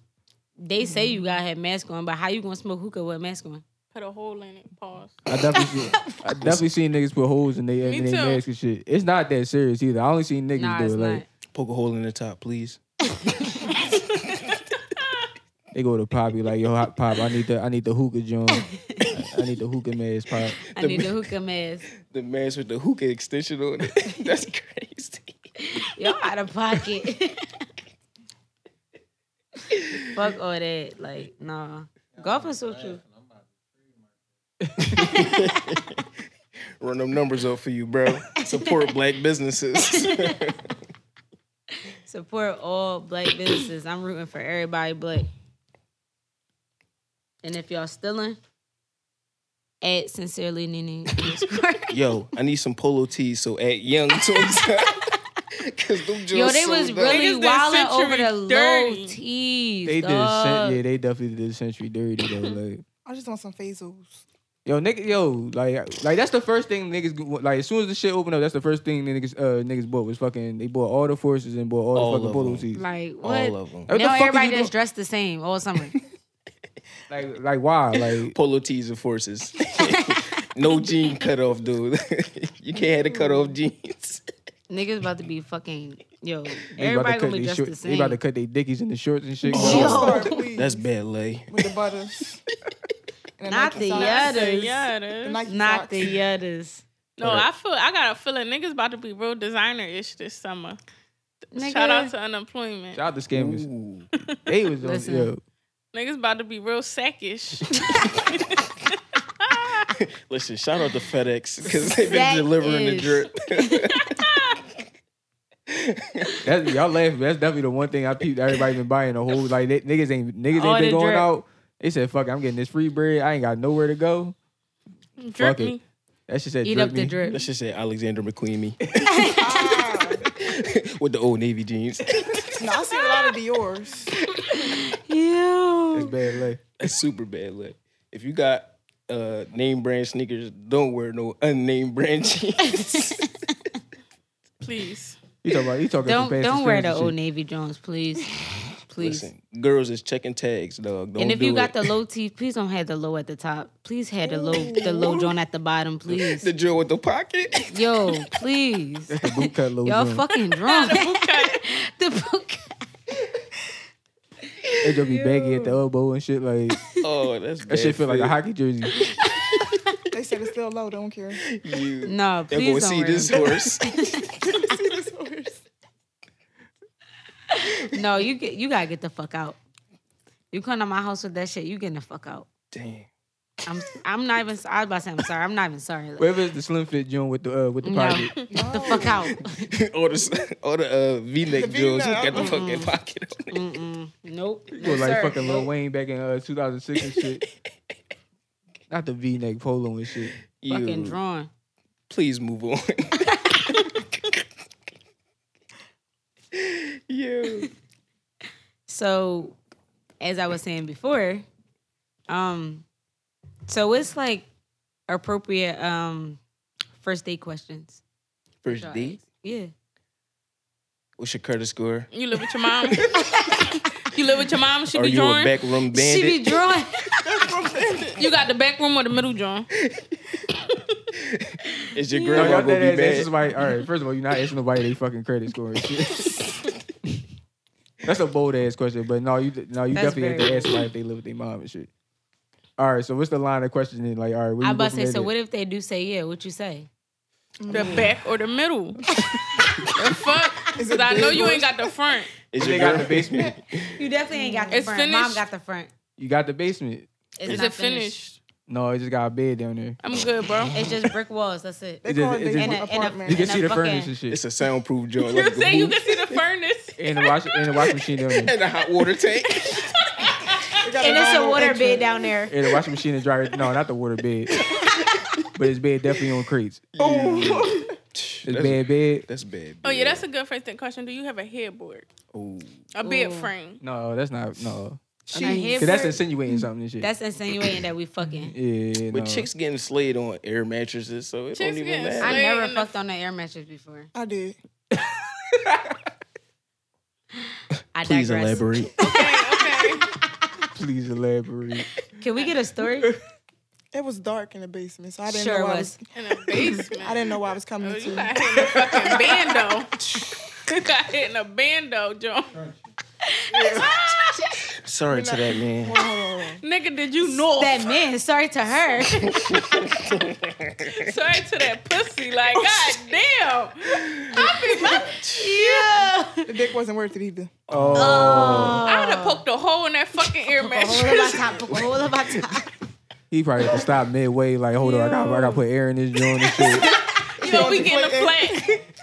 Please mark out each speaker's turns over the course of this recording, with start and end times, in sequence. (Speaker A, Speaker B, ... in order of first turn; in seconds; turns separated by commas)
Speaker A: 0.6-3.6, Speaker B: 0.9-1.2, Speaker C: 3.9-5.2, Speaker D: 5.3-11.2, Speaker E: 6.3-6.7, Speaker C: 7.8-8.4, Speaker A: 10.6-11.2, Speaker E: 11.5-12.8, Speaker A: 13.1-13.7, Speaker D: 15.7-20.6, Speaker A: 18.5-19.1, Speaker A: 20.7-21.9, Speaker E: 20.8-21.2, Speaker E: 22.0-25.4, Speaker A: 25.6-27.6, Speaker E: 29.7-30.0, Speaker A: 30.1-33.0, Speaker D: 34.6-35.2, Speaker E: 34.9-36.1, Speaker E: 36.8-40.6, Speaker A: 38.4-38.9, Speaker A: 42.0-45.3, Speaker A: 47.4-48.4, Speaker A: 49.8-52.0, Speaker E: 51.9-57.2, Speaker A: 56.3-60.8, Speaker C: 57.1-59.2, Speaker D: 59.9-62.8, Speaker B: 63.0-64.2, Speaker D: 64.6-72.8, Speaker E: 71.9-72.7, Speaker A: 72.7-75.9, Speaker E: 73.2-73.9, Speaker D: 73.9-74.7, Speaker D: 77.1-78.3, Speaker E: 78.0-84.2, Speaker B: 82.8-83.5, Speaker A: 84.7-88.2, Speaker D: 86.8-90.0, Speaker A: 89.5-90.4, Speaker B: 89.5-90.8, Speaker E: 89.6-91.7, Speaker B: 91.5-92.4, Speaker B: 93.4-94.4, Speaker A: 93.5-94.9, Speaker C: 93.8-95.4, Speaker B: 95.2-96.1, Speaker A: 95.4-96.8, Speaker C: 97.2-100.8, Speaker E: 97.2-97.5, Speaker A: 101.5-102.1, Speaker C: 101.5-103.0, Speaker D: 102.9-103.7, Speaker E: 103.3-104.1, Speaker D: 104.5-105.4, Speaker A: 104.8-105.3, Speaker C: 105.9-109.9, Speaker E: 110.0-114.2, Speaker A: 111.9-113.9, Speaker C: 114.2-114.5, Speaker E: 115.7-116.4, Speaker D: 116.4-124.3, Speaker A: 120.5-121.3, Speaker C: 125.2-125.8, Speaker D: 125.4-125.8, Speaker D: 126.3-127.2, Speaker A: 126.6-127.4, Speaker E: 127.3-128.8, Speaker A: 129.1-129.7, Speaker B: 129.3-130.3, Speaker E: 130.3-132.7, Speaker B: 132.6-134.1, Speaker A: 134.4-136.2, Speaker D: 135.9-136.6, Speaker E: 136.8-143.3, Speaker A: 142.6-143.5, Speaker C: 144.6-145.2, Speaker D: 145.4-147.2, Speaker A: 146.0-148.3, Speaker A: 148.8-149.3, Speaker E: 149.0-151.9, Speaker A: 151.2-156.5, Speaker E: 154.5-155.3, Speaker E: 156.1-158.1, Speaker A: 157.7-162.7, Speaker D: 159.1-160.2, Speaker C: 160.7-161.6, Speaker D: 164.8-166.8, Speaker A: 165.0-165.8, Speaker E: 167.0-168.3, Speaker D: 167.7-168.9, Speaker A: 169.0-169.6, Speaker B: 170.1-171.4, Speaker E: 171.5-173.9, Speaker A: 172.0-174.3, Speaker B: 174.4-175.6, Speaker A: 177.8-179.6, Speaker A: 180.5-182.5, Speaker E: 182.7-183.1, Speaker A: 183.7-186.3, Speaker D: 186.2-188.3, Speaker A: 187.8-189.7, Speaker B: 188.5-189.3, Speaker E: 188.9-193.6, Speaker B: 191.5-192.6, Speaker A: 192.3-192.9, Speaker A: 193.5-195.7, Speaker D: 194.7-197.4, Speaker D: 198.9-200.3, Speaker E: 200.6-201.2, Speaker A: 200.7-201.5, Speaker E: 202.1-204.2, Speaker E: 206.5-207.7, Speaker A: 208.9-209.6, Speaker A: 210.2-211.4, Speaker A: 212.3-212.8, Speaker A: 213.7-214.5, Speaker A: 215.1-216.4, Speaker A: 217.0-218.0, Speaker E: 218.6-219.2, Speaker A: 218.7-219.7, Speaker E: 221.2-222.1, Speaker C: 222.1-223.1, Speaker E: 222.8-223.2, Speaker A: 223.2-223.6, Speaker C: 224.0-225.6, Speaker E: 224.9-226.6, Speaker A: 225.9-227.4, Speaker B: 227.2-228.2, Speaker C: 228.1-229.7, Speaker E: 229.8-230.1, Speaker E: 231.2-233.3, Speaker A: 232.1-232.7, Speaker D: 232.3-236.4, Speaker D: 238.0-241.9, Speaker A: 239.9-240.8, Speaker D: 242.8-245.3, Speaker A: 244.6-246.9, Speaker B: 247.6-248.1, Speaker C: 247.7-249.0, Speaker A: 247.7-248.1, Speaker C: 249.9-252.3, Speaker B: 250.7-251.8, Speaker E: 252.5-254.0, Speaker D: 252.6-253.5, Speaker A: 253.9-255.9, Speaker B: 254.3-254.9, Speaker C: 254.7-255.4, Speaker D: 256.2-257.1, Speaker A: 257.4-258.1, Speaker C: 257.4-258.4, Speaker D: 258.7-260.0, Speaker C: 260.0-260.8, Speaker E: 260.1-260.7, Speaker A: 260.7-264.1, Speaker B: 262.0-263.5, Speaker D: 262.1-264.4, Speaker E: 264.3-266.4, Speaker C: 265.2-267.3, Speaker D: 267.0-268.5, Speaker E: 268.3-270.0, Speaker C: 269.7-270.8, Speaker B: 270.8-272.3, Speaker A: 271.0-272.5, Speaker D: 272.5-274.6, Speaker E: 274.5-275.5, Speaker D: 275.5-276.9, Speaker E: 276.9-280.2, Speaker B: 277.0-278.0, Speaker D: 278.4-279.2, Speaker C: 279.8-282.1, Speaker E: 282.3-282.8, Speaker C: 282.9-283.8, Speaker A: 283.0-283.5, Speaker D: 283.8-285.0, Speaker B: 285.3-286.0, Speaker E: 285.3-285.8, Speaker A: 285.4-286.2, Speaker D: 285.8-287.1, Speaker A: 287.0-288.5, Speaker D: 288.3-289.5, Speaker E: 289.1-292.4, Speaker C: 291.5-292.9, Speaker A: 292.2-294.1, Speaker B: 294.1-294.6, Speaker D: 294.9-296.0, Speaker A: 297.9-299.2, Speaker E: 298.0-298.9, Speaker C: 299.0-300.1, Speaker A: 300.4-300.7, Speaker D: 300.7-301.9, Speaker A: 302.1-303.1, Speaker B: 303.9-306.0, Speaker A: 305.3-306.0, Speaker C: 306.1-310.0, Speaker B: 306.5-308.4, Speaker D: 308.8-309.1, Speaker C: 310.6-312.6, Speaker A: 313.2-314.6, Speaker E: 314.8-316.0, Speaker B: 315.1-316.6, Speaker C: 316.6-317.9, Speaker A: 317.4-320.0, Speaker E: 319.3-321.1, Speaker C: 320.9-325.8, Speaker E: 323.9-325.6, Speaker A: 324.3-326.5, Speaker B: 326.4-327.6, Speaker E: 327.7-328.8, Speaker D: 327.7-328.8, Speaker A: 327.9-329.4, Speaker C: 328.8-331.3, Speaker A: 330.5-332.7, Speaker E: 331.2-331.9, Speaker D: 333.3-336.9, Speaker A: 334.8-335.6, Speaker B: 336.6-338.8, Speaker C: 337.4-338.7